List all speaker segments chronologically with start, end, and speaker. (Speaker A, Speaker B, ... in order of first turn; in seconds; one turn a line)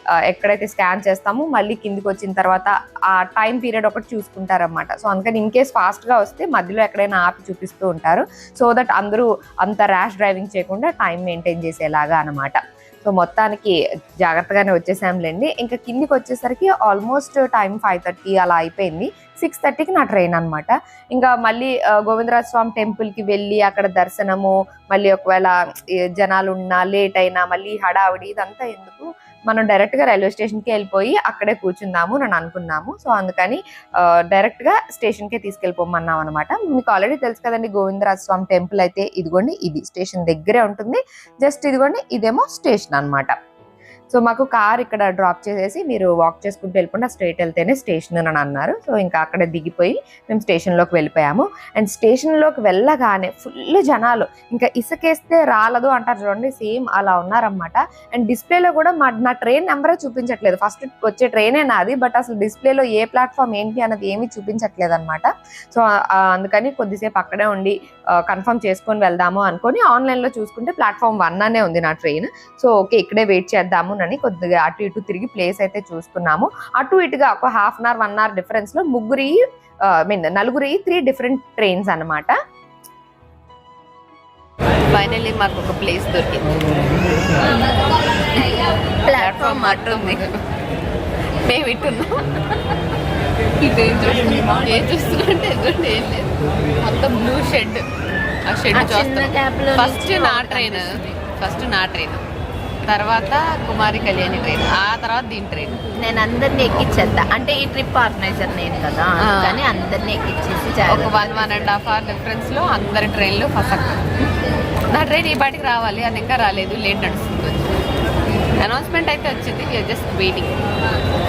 Speaker A: 0.2-43.3
Speaker A: 44.1-82.3
Speaker B: 84.9-86.5
Speaker C: 89.0-90.2
Speaker B: 89.1-90.3
Speaker B: 91.5-92.2
Speaker B: 93.6-96.3
Speaker B: 96.8-97.8
Speaker B: 98.5-102.2
Speaker C: 98.7-101.0
Speaker B: 102.9-105.8
Speaker C: 106.0-111.7
Speaker B: 106.7-107.0
Speaker B: 109.2-109.7
Speaker B: 110.8-114.0
Speaker B: 114.9-117.7
Speaker B: 118.6-120.5